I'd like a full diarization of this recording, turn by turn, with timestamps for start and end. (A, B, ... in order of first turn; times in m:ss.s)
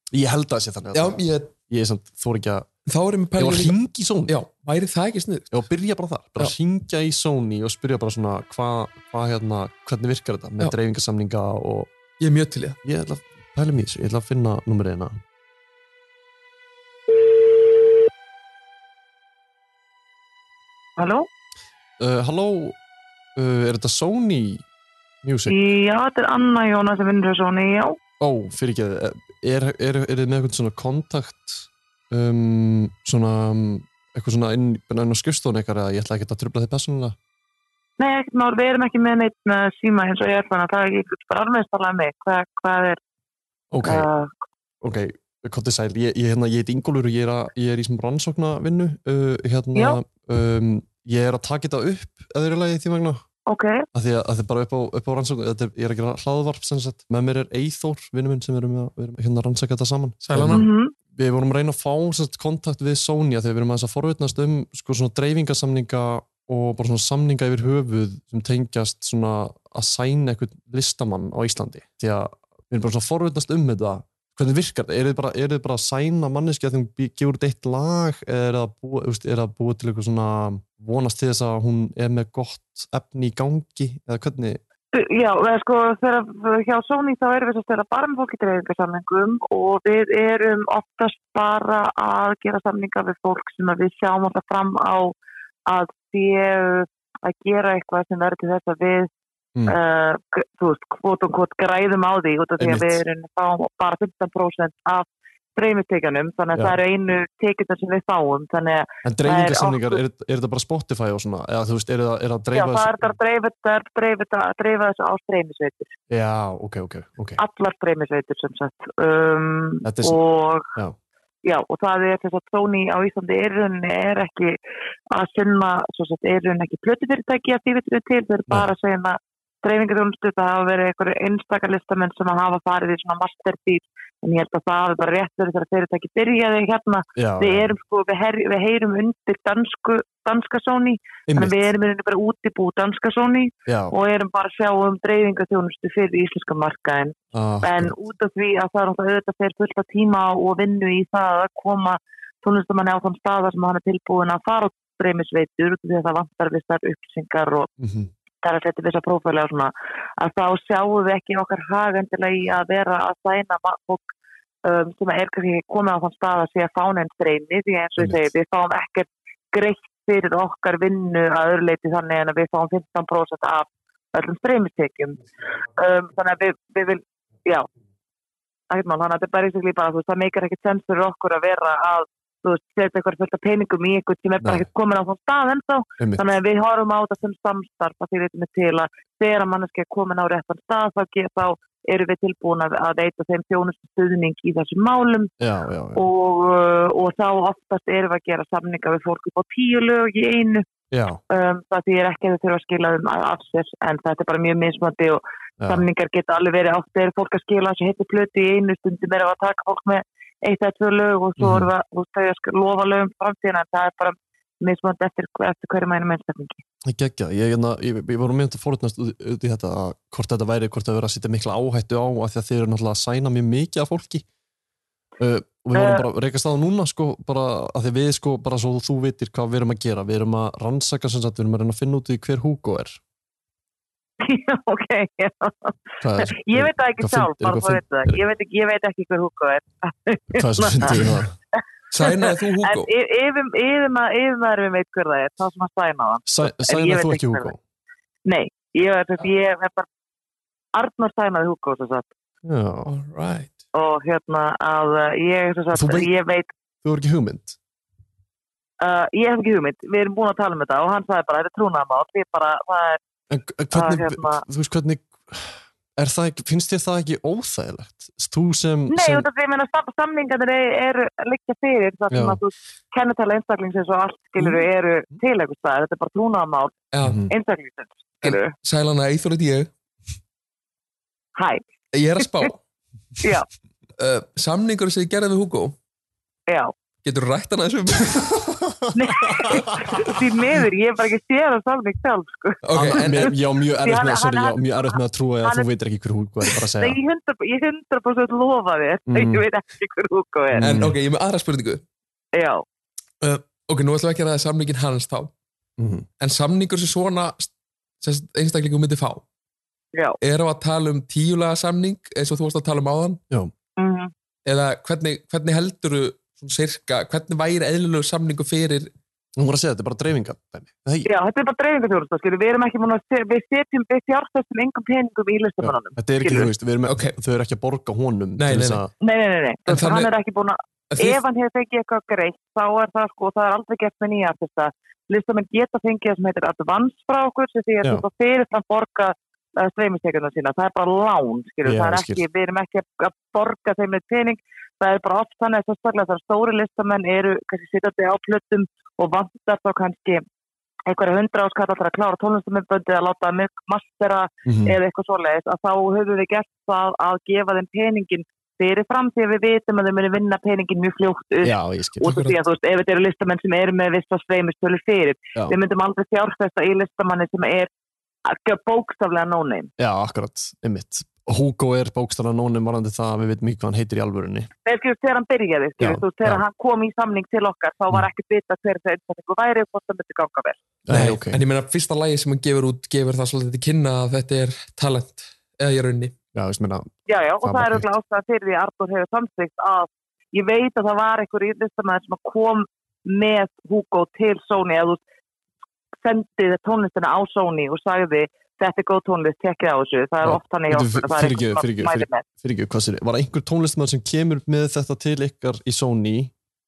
0:00.1-0:02.7 A
0:00.9-0:01.5 B
0:02.8-0:05.5 B
0:03.4-0:04.3 A
0:05.5-0:11.9 A
0:12.2-0:12.8 B
0:12.8-0:15.2 A
0:21.0-0:21.3 C
0:22.0-0:22.8 A
0:23.4-0:24.6 A
0:25.2-0:25.6 A
0:25.5-0:28.0 C
0:28.2-0:37.2 A
0:38.0-0:43.0 C
0:43.7-0:44.1 A
0:43.8-0:44.3 C
0:44.8-0:53.2 A
0:53.5-0:53.8 C
0:53.9-1:24.6 A
1:00.2-1:00.6 B
1:00.5-1:00.9 C
1:24.9-1:35.1 C
1:35.7-1:39.1 C
1:39.6-1:50.0 C
1:42.6-1:43.0 A
1:49.0-1:53.1 A
1:52.5-1:55.9 C
1:56.1-1:57.4 A
1:57.4-2:00.7 C
1:59.8-2:00.2 A
2:01.4-2:04.6 C
2:05.1-2:37.7 C
2:17.2-2:17.7 A
2:21.3-2:21.6 A
2:23.7-2:23.9 A
2:27.3-2:27.9 A
2:37.8-2:38.1 A
2:38.4-2:44.0 C
2:44.6-2:55.2 C
2:48.0-2:48.2 A
2:55.7-2:57.7 C
2:58.7-3:15.3 C
3:04.4-3:04.6 A
3:06.0-3:06.3 A
3:15.4-3:16.0 A
3:16.0-3:20.6 C
3:20.9-3:21.2 A
3:21.3-3:36.6 C
3:25.6-3:25.8 A
3:31.4-3:31.7 A
3:36.8-3:44.2 A
3:45.2-3:53.0 A
3:45.7-3:46.0 C
3:54.2-4:01.1 C
3:56.0-3:58.2 A
4:00.3-4:01.3 A
4:01.9-4:02.9 B
4:02.0-4:07.5 C
4:06.3-4:07.6 A
4:08.2-4:09.8 C
4:10.7-4:12.1 C
4:12.4-4:12.9 A
4:12.8-4:13.5 B
4:13.7-4:16.5 C
4:15.7-4:16.1 A
4:16.8-4:17.6 A
4:18.8-4:23.0 C
4:23.3-4:29.2 A
4:23.7-4:24.4 C
4:28.9-4:36.8 C
4:32.1-4:32.4 A
4:36.9-4:37.2 B
4:37.0-4:37.3 A
4:37.3-4:38.5 C
4:38.2-4:39.7 B
4:41.4-4:41.6 C
4:41.9-4:42.6 B
4:43.2-4:43.4 C
4:44.0-4:45.8 B
4:46.5-4:46.7 C
4:47.0-4:48.5 B
4:48.6-4:50.2 A
4:48.9-4:55.7 C
4:52.6-4:53.3 B
4:52.7-4:57.0 A
4:56.8-5:00.7 C
4:59.1-4:59.4 A
5:00.5-5:00.9 A
5:00.6-5:01.8 B
5:02.3-5:02.6 C
5:03.2-5:05.3 B
5:05.8-5:06.1 A
5:06.2-5:09.2 B
5:10.2-5:13.2 B
5:13.8-5:14.1 C
5:14.4-5:18.9 B
5:19.4-5:21.1 A
5:21.0-5:26.5 C
5:25.6-5:28.9 A
5:26.9-5:27.2 B
5:28.4-5:28.8 B
5:29.0-5:50.2 C
5:29.7-5:30.1 B
5:30.9-5:31.2 B
5:41.6-5:42.2 A
5:50.9-6:07.7 C
5:54.4-5:54.8 A
6:01.4-6:02.1 A
6:02.0-6:02.4 B
6:08.2-6:09.7 C
6:09.8-6:14.5 A
6:14.6-6:20.6 C
6:15.8-6:16.4 A
6:20.8-6:21.4 A
6:20.9-6:26.1 B
6:26.3-6:27.9 A
6:27.1-6:35.0 C
6:36.0-6:42.2 C
6:40.2-6:46.3 A